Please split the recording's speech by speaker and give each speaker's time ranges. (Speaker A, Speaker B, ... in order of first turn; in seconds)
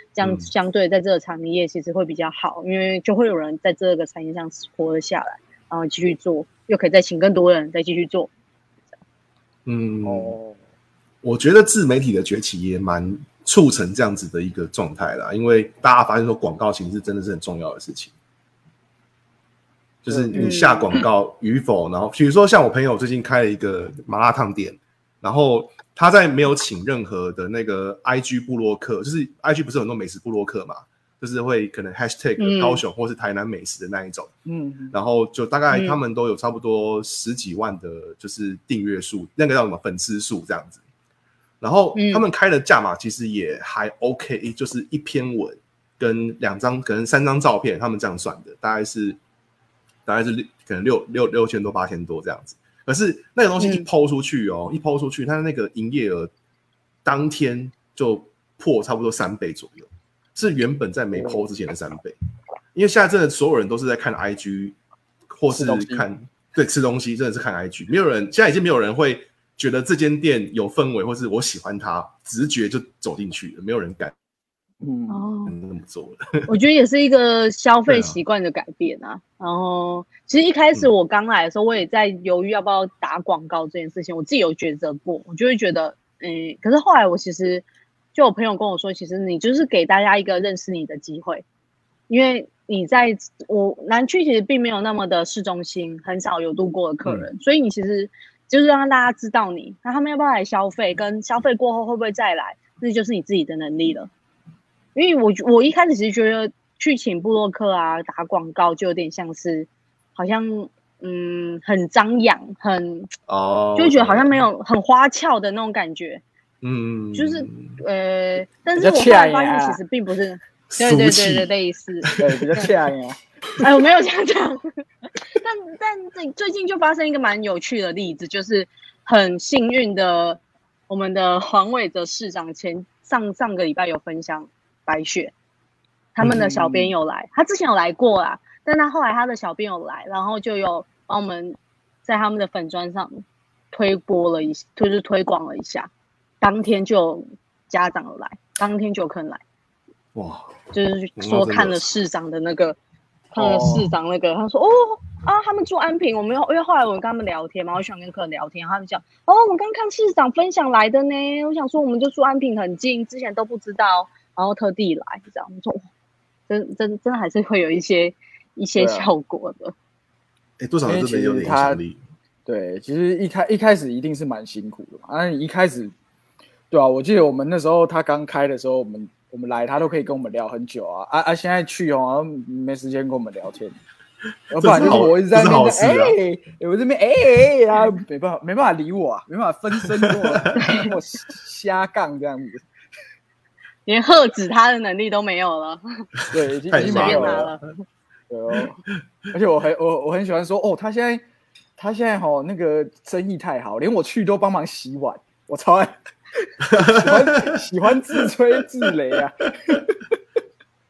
Speaker A: 0.2-8.3, 20.4-21.0, 32.4-32.8, 35.7-36.0, 41.9-42.2, 53.6-53.9, 75.1-75.5, 76.5-91.4, 92.1-104.1, 104.9-113.1, 113.8-116.2, 117.1-122.7, 123.6-124.7, 125.3-135.3, 136.2-145.9, 146.4-149.4, 150.7-152.8, 153.3-165.8, 166.5-169.7, 190.6-190.9, 193.8-196.1, 196.7-197.7
Speaker B: 0.2-0.5, 9.7-10.3, 11.2-18.1, 20.0-34.3, 34.9-40.8, 41.6-49.2, 50.1-56.3, 57.0-62.2, 62.8-64.8, 65.3-74.1, 75.5-76.5, 77.9-78.2, 113.3-114.4, 116.6-117.8, 120.7-121.5, 122.0-122.4, 136.2-136.5, 150.2-150.6, 151.2-151.9, 170.6-172.0, 184.5-186.2, 190.0-190.5, 196.2-197.6, 206.7-207.6
Speaker C: 10.0-10.6, 20.1-20.7, 34.5-35.0, 65.5-66.1, 74.8-75.2, 118.8-119.8, 122.2-123.2, 136.2-136.9, 153.3-153.9, 168.8-169.1, 170.8-171.8, 172.4-175.9, 176.7-183.8, 184.5-192.6, 196.3-197.5, 198.3-198.8, 199.3-201.2, 201.8-209.8